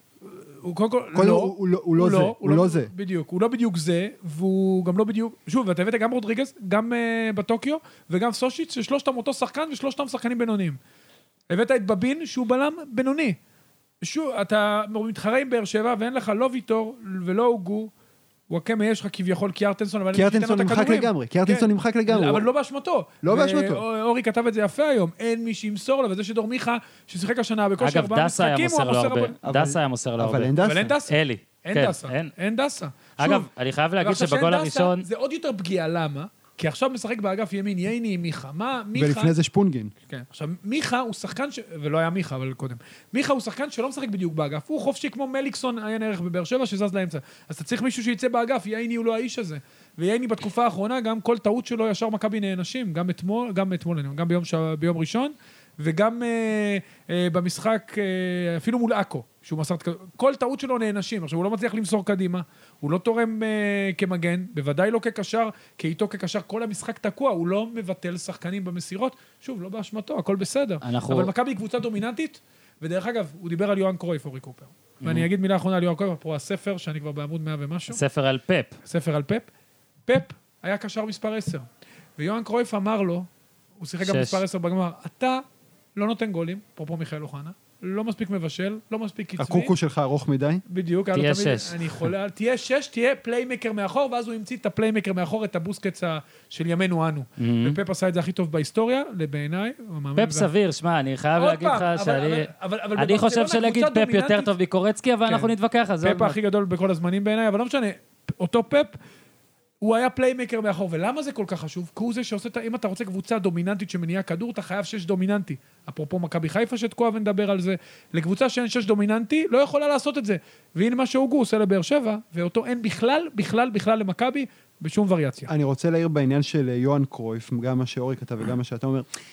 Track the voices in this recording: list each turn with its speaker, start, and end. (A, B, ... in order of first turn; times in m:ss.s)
0:00.3-0:10.8 A
0:01.1-0:02.9 B
0:11.5-0:13.4 A
0:14.0-0:17.9 A
0:18.5-0:29.4 A
0:20.1-0:22.5 B
0:23.2-0:23.8 B
0:27.8-0:30.5 C
0:29.4-0:30.9 B
0:30.6-0:33.5 A
0:31.0-0:32.3 C
0:33.2-0:35.0 C
0:34.0-0:39.3 A
0:38.9-0:39.9 B
0:40.1-1:18.0 A
1:10.8-1:11.3 C
1:15.0-1:15.3 C
1:17.9-1:18.7 C
1:18.8-1:19.5 A
1:20.1-1:21.6 A
1:22.2-1:23.3 A
1:23.8-1:25.4 A
1:24.0-1:24.4 C
1:26.0-1:29.7 A
1:29.4-1:30.6 B
1:30.7-1:40.5 A
1:31.1-1:32.1 C
1:37.4-1:37.8 C
1:40.2-1:46.4 C
1:41.4-1:44.5 A
1:45.2-1:48.9 A
1:49.8-2:05.5 A
2:05.5-2:09.0 B